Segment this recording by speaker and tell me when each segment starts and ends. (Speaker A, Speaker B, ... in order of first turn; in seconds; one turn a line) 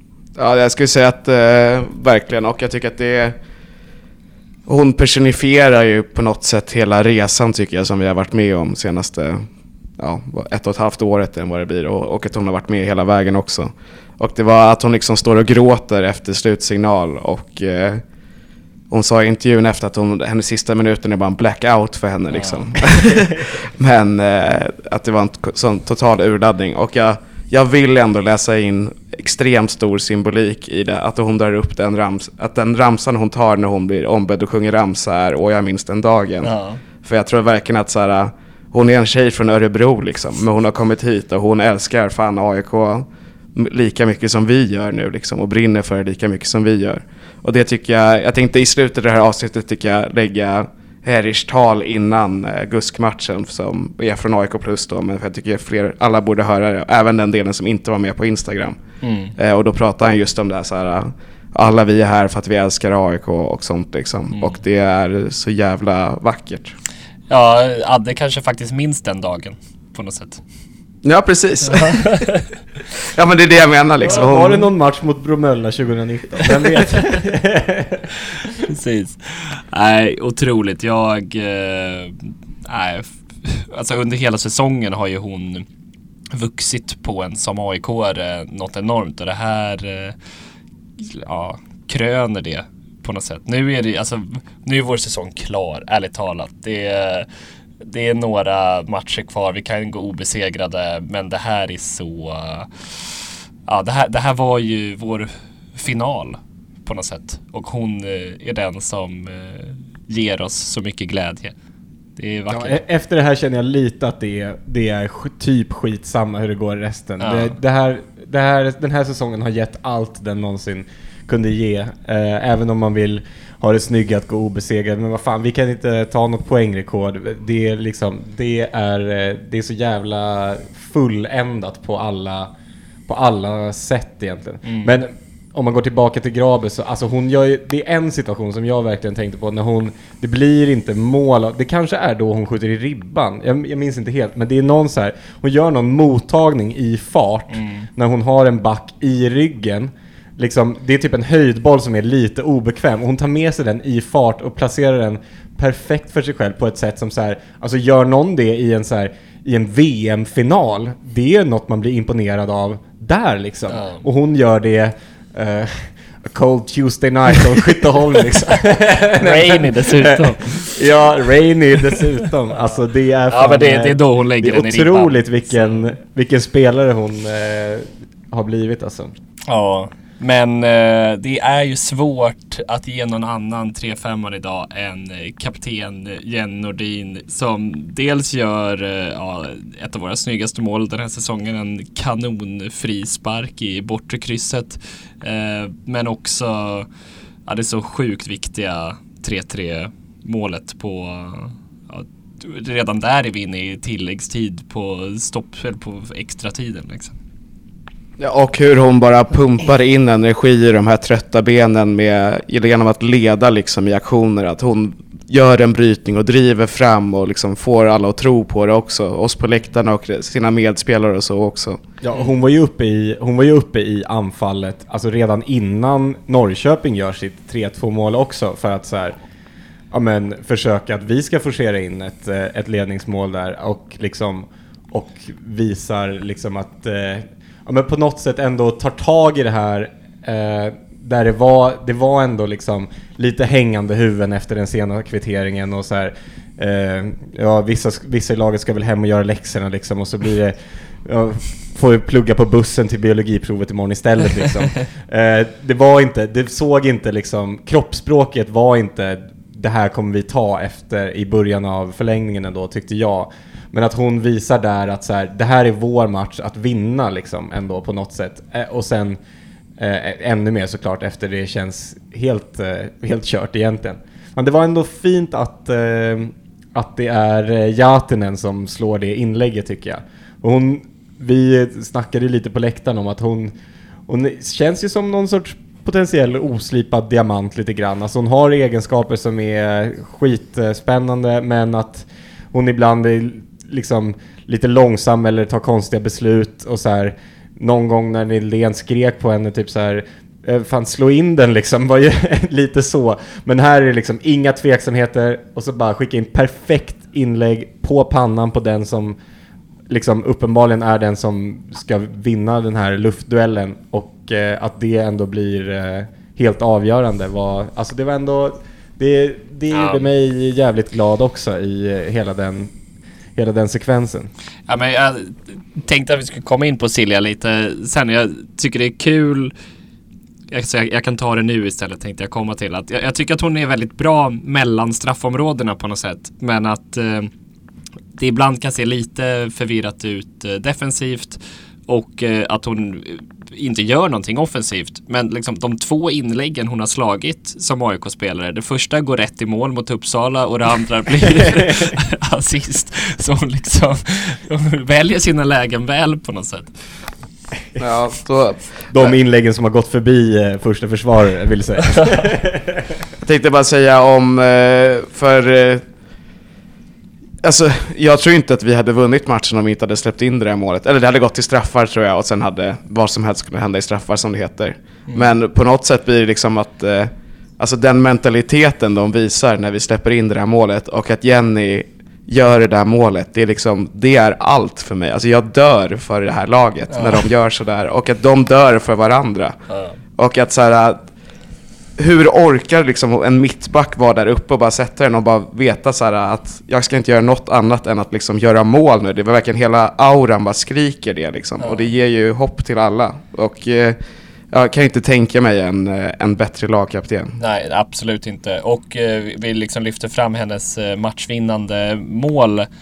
Speaker A: 0.3-3.4
Speaker A: 4.7-9.4
Speaker A: 10.0-18.0
Speaker A: 18.9-58.8
Speaker B: 22.3-22.8
Speaker B: 36.4-36.8
Speaker B: 59.0-59.3
Speaker A: 59.4-66.7
Speaker B: 64.3-64.6
Speaker B: 67.3-70.4
Speaker A: 71.0-72.2
Speaker B: 71.7-72.5
Speaker A: 73.0-74.7
Speaker C: 74.0-78.1
Speaker B: 78.6-85.6
Speaker B: 86.3-90.2
Speaker B: 91.0-97.3
Speaker B: 97.8-111.5
Speaker B: 112.2-112.8
Speaker C: 112.5-132.5
Speaker B: 117.2-117.5
Speaker C: 133.1-179.1
Speaker B: 134.6-134.9
Speaker B: 147.5-147.9
Speaker B: 163.7-164.0
Speaker B: 169.1-170.8
Speaker B: 173.3-175.9
Speaker B: 179.5-196.9
Speaker B: 197.4-207.2
Speaker A: 208.2-221.8
Speaker C: 222.0-229.2
Speaker C: 229.9-269.2
Speaker C: 269.8-283.5
Speaker C: 284.1-309.2
Speaker C: 309.9-322.7
Speaker B: 319.7-320.1
Speaker C: 323.4-324.3
Speaker B: 324.7-329.5
Speaker B: 330.5-337.3
Speaker B: 338.2-356.7
Speaker A: 357.8-359.1
Speaker C: 358.9-362.9
Speaker A: 363.2-365.8
Speaker A: 367.4-389.6
Speaker B: 386.9-387.2
Speaker B: 389.7-390.0
Speaker A: 390.2-391.0
Speaker A: 392.0-404.0
Speaker B: 401.6-401.9
Speaker A: 404.5-407.4
Speaker B: 407.4-412.7